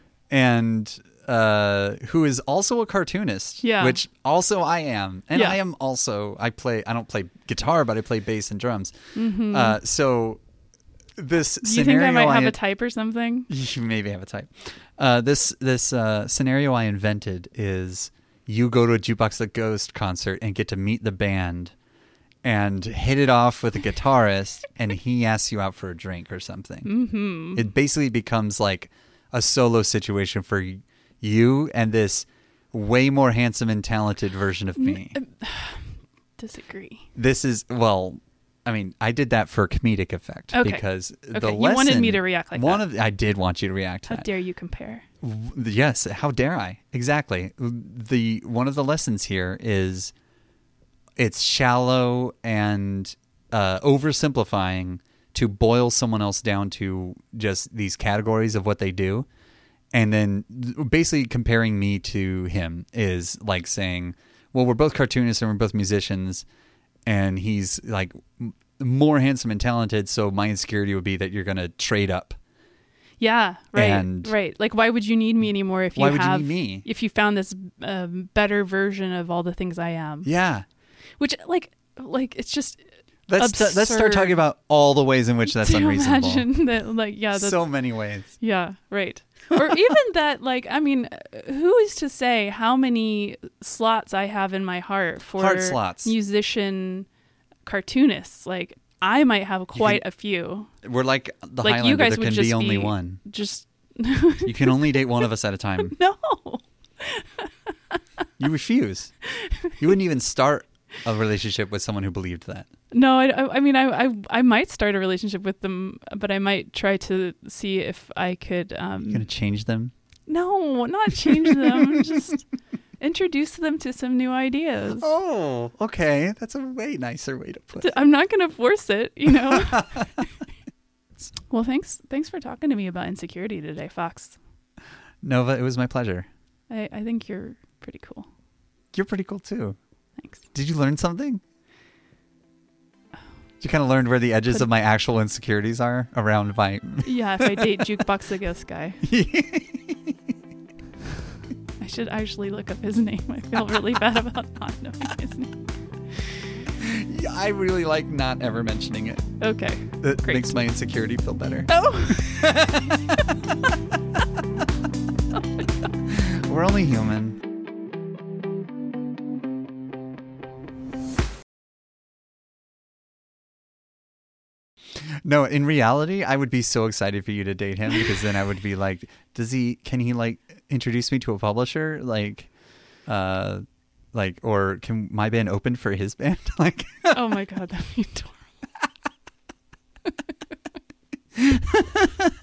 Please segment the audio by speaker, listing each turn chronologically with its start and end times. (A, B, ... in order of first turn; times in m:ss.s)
0:00.3-0:08.9 A
0:03.6-0:04.0 B
0:05.3-0:05.6 B
0:09.1-0:09.8 B
0:09.5-0:10.4 A
0:11.2-0:12.6 A
0:11.6-0:13.5 B
0:13.5-0:21.7 A
0:22.4-0:26.9 A
0:26.8-0:27.6 B
0:27.5-0:35.2 A
0:34.8-0:37.1 B
0:37.1-0:44.2 A
0:40.5-0:42.8 B
0:44.1-0:45.0 B
0:45.2-0:50.1 A
0:51.2-0:59.3 A
0:59.9-1:06.4 A
1:07.0-1:12.3 A
1:13.2-1:20.3 B
1:13.8-1:14.3 A
1:16.0-1:16.8 A
1:20.2-1:20.6 A
1:21.2-1:24.4 B
1:23.3-1:26.5 A
1:25.5-1:27.6 B
1:27.3-1:28.3 A
1:28.4-1:37.1 B
1:35.4-1:36.1 A
1:37.6-1:40.7 B
1:39.8-1:40.0 A
1:40.8-1:43.2 A
1:41.6-1:45.2 B
1:44.4-1:46.0 A
1:45.8-1:48.0 B
1:48.4-1:49.1 A
1:49.3-1:49.7 B
1:49.8-1:52.7 A
1:52.9-1:59.2 B
1:59.1-1:59.9 A
2:00.3-2:02.4 B
2:01.6-2:02.2 A
2:03.0-2:05.1 B
2:05.0-2:08.0 A
2:07.8-2:10.2 B
2:09.5-2:10.0 A
2:11.5-2:14.4 B
2:15.2-2:16.3 A
2:16.7-2:18.3 B
2:18.9-2:19.8 A
2:20.2-2:20.4 B
2:20.5-2:21.4 A
2:23.6-2:27.8 A
2:27.0-2:29.0 B
2:29.0-2:30.1 A
2:31.8-2:35.6 B
2:36.8-2:39.2 A
2:39.4-2:40.5 B
2:40.0-2:41.7 A
2:41.7-2:43.0 B
2:42.4-2:43.1 A
2:46.0-2:47.4 A
2:55.2-3:02.5 A
3:03.1-3:07.2 A
3:07.1-3:08.4 B
3:11.4-3:12.2 A